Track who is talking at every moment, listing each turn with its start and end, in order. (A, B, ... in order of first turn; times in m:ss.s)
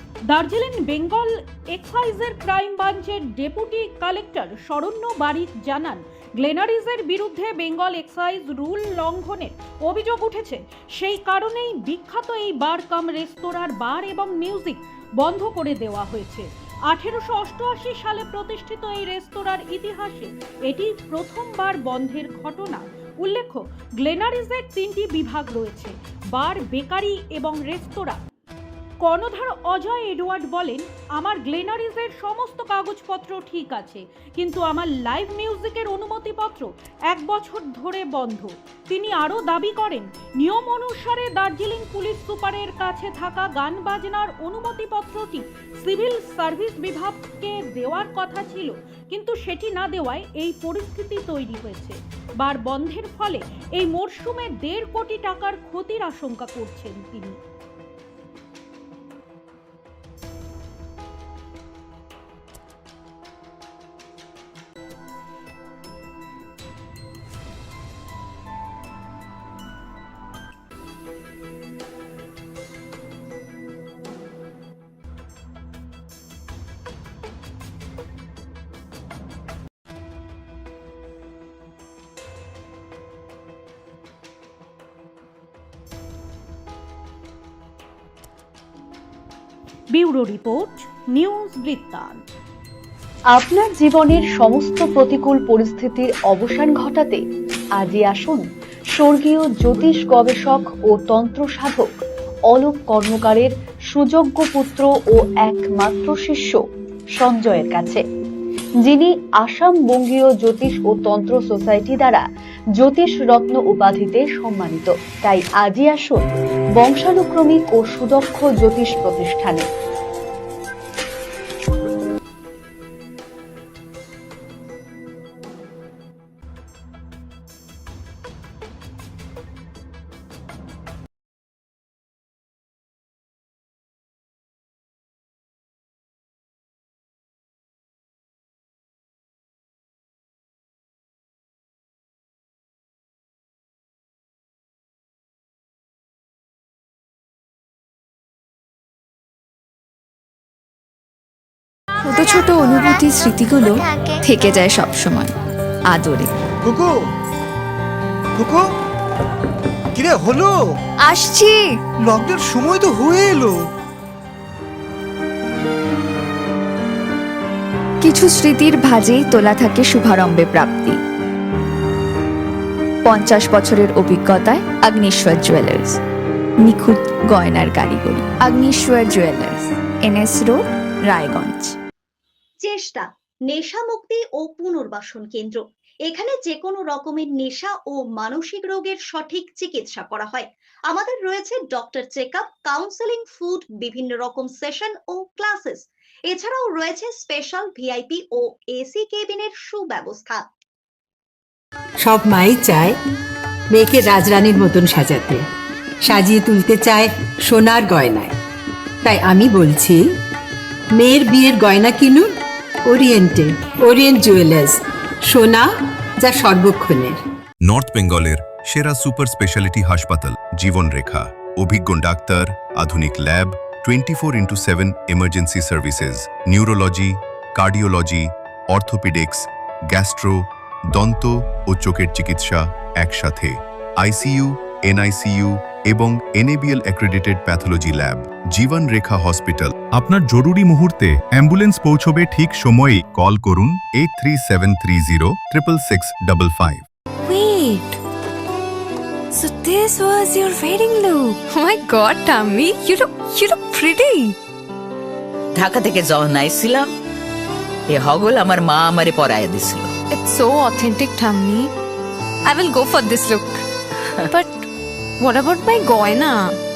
0:00.3-0:28.2 A
0:29.0-0:57.4 A
1:29.9-1:32.2 A
1:33.3-1:37.2 B
1:37.8-1:38.4 B
1:39.0-1:42.0 B
1:42.5-1:46.6 B
1:47.2-1:48.0 B
1:48.8-1:52.2 B
1:52.8-1:59.6 B
2:32.0-2:35.3 C
2:35.9-2:36.3 C
2:36.6-2:36.9 D
2:38.4-2:38.7 D
2:40.0-2:40.6 D
2:41.0-2:41.8 C
2:42.1-2:43.6 D
2:48.0-2:51.0 C
2:53.1-2:56.0 C
2:56.6-3:01.7 C
3:02.7-3:20.4 E
3:22.0-3:23.0 F
3:23.7-3:25.4 F
3:26.0-3:28.4 F
3:29.0-3:30.0 F
3:31.0-3:32.3 F
3:32.9-3:35.7 F
3:36.2-3:37.2 F
3:37.6-3:50.4 G
3:51.0-4:06.8 G
4:07.2-4:08.0 H
4:09.3-4:14.4 H
4:15.5-4:16.9 I
4:17.9-4:19.9 I
4:20.2-4:21.7 H
4:22.4-4:23.6 H
4:24.3-4:24.6 H
4:25.2-4:26.5 H